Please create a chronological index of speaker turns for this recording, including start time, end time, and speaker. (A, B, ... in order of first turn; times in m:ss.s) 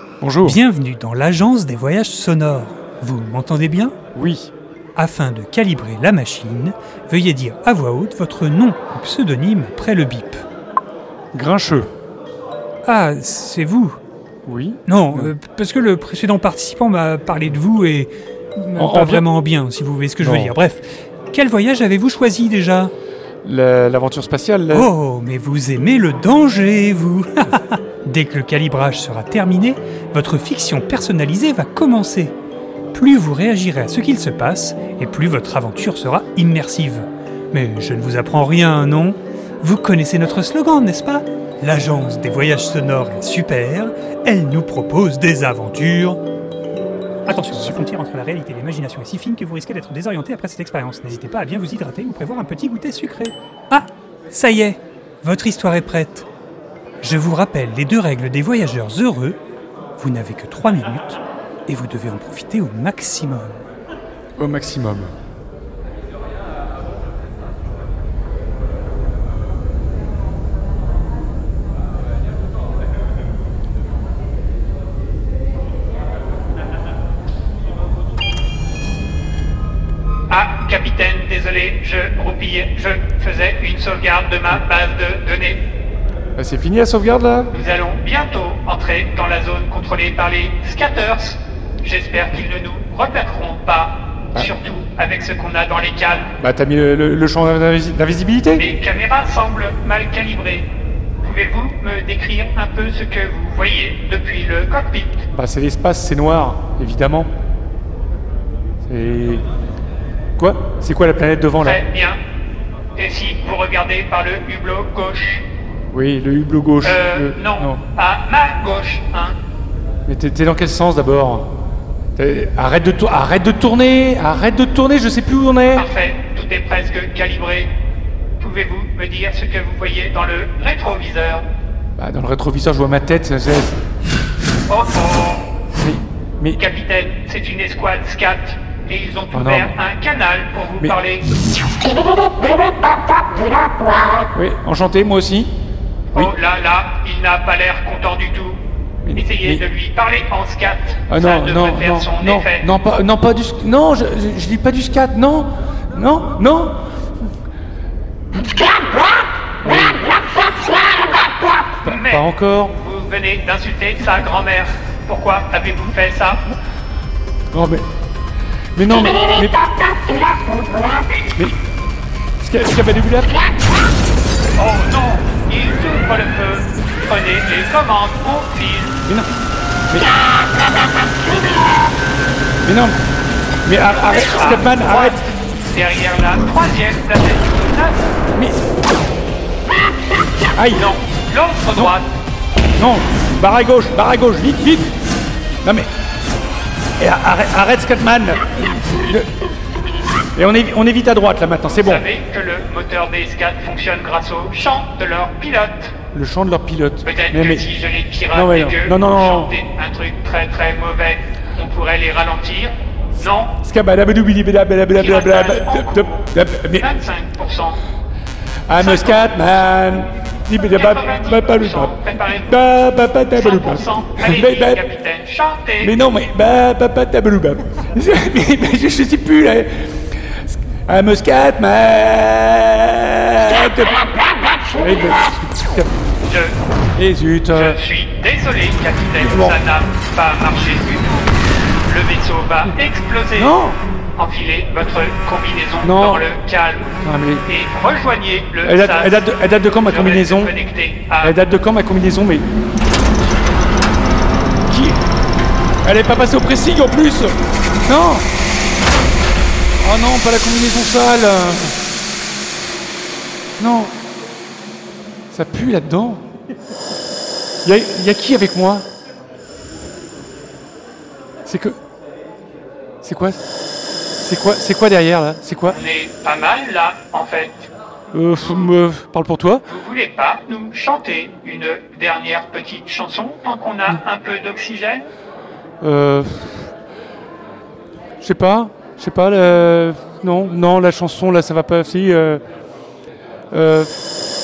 0:00.2-0:00.6 A
0:00.4-0:03.9 B
0:04.1-0:04.5 A
0:05.0-0:10.4 B
0:11.3-0:11.9 A
0:12.8-0:14.0 B
0:14.4-0:15.3 A
0:14.9-0:22.9 B
0:18.8-0:19.2 A
0:20.2-0:20.6 A
0:23.4-0:24.9 A
0:24.7-0:32.3 B
0:32.9-0:46.2 B
0:47.3-0:56.3 B
0:57.0-0:59.4 B
1:00.0-1:03.6 B
1:04.4-1:05.1 A
1:20.3-1:25.6 C
1:26.4-1:27.5 A
1:27.5-1:36.3 C
1:36.4-1:38.6 A
1:38.5-1:40.7 C
1:41.2-1:45.3 C
1:45.3-1:47.3 A
1:48.8-1:49.4 A
1:50.4-1:51.8 A
1:51.6-1:52.2 C
1:53.0-1:55.4 C
1:55.9-1:57.8 A
1:56.8-1:59.4 C
2:00.1-2:01.5 A
2:02.2-2:05.8 A
2:05.7-2:07.7 C
2:08.4-2:11.4 C
2:12.0-2:13.8 A
2:14.7-2:15.5 C
2:15.7-2:16.6 A
2:16.6-2:21.3 C
2:19.3-2:19.7 A
2:24.3-2:25.5 A
2:26.1-2:28.6 C
2:29.0-2:29.6 A
2:29.2-2:32.7 C
2:31.1-2:36.8 A
2:39.6-2:40.1 A
2:41.8-2:42.8 A
2:41.8-2:46.5 C
2:47.5-2:47.8 A
2:48.7-2:49.8 A
2:52.4-2:53.4 A
2:54.6-2:59.0 C
2:59.9-3:00.2 A
3:02.6-3:03.0 A
3:03.6-3:05.3 A
3:03.8-3:08.1 C
3:08.3-3:08.6 A
3:10.5-3:10.9 A
3:10.7-3:12.1 C
3:12.8-3:14.9 A
3:15.6-3:15.9 A
3:17.0-3:19.3 A
3:20.3-3:22.0 A
3:21.7-3:26.0 C
3:26.1-3:27.7 A
3:27.0-3:33.5 C
3:28.3-3:29.6 A
3:33.6-3:36.9 A
3:34.9-3:36.3 C
3:36.8-3:37.8 C
3:38.7-3:42.0 A
3:38.7-3:39.5 C
3:40.6-3:42.6 C
3:42.5-3:44.8 A
3:43.3-3:46.0 C
3:45.8-3:55.9 A
3:56.2-3:56.6 C
3:57.0-3:57.8 A
3:57.5-4:01.3 C
3:59.2-3:59.6 A
4:01.9-4:03.5 C
4:03.3-4:03.8 A
4:04.2-4:11.4 C
4:05.8-4:06.3 A
4:07.0-4:07.4 A
4:08.6-4:10.5 A
4:11.2-4:12.4 A
4:14.7-4:15.0 A
4:15.8-4:17.3 A
4:17.8-4:18.2 A
4:19.8-4:21.8 A
4:23.6-4:24.0 A
4:25.3-4:26.2 A
4:27.6-4:28.8 A
4:31.4-4:31.8 A
4:33.0-4:33.4 A
4:34.2-4:35.8 A
4:35.7-4:37.7 C
4:38.1-4:39.6 A
4:39.7-4:45.1 C
4:45.8-4:46.7 A
4:48.2-4:52.4 A
4:53.5-4:53.9 A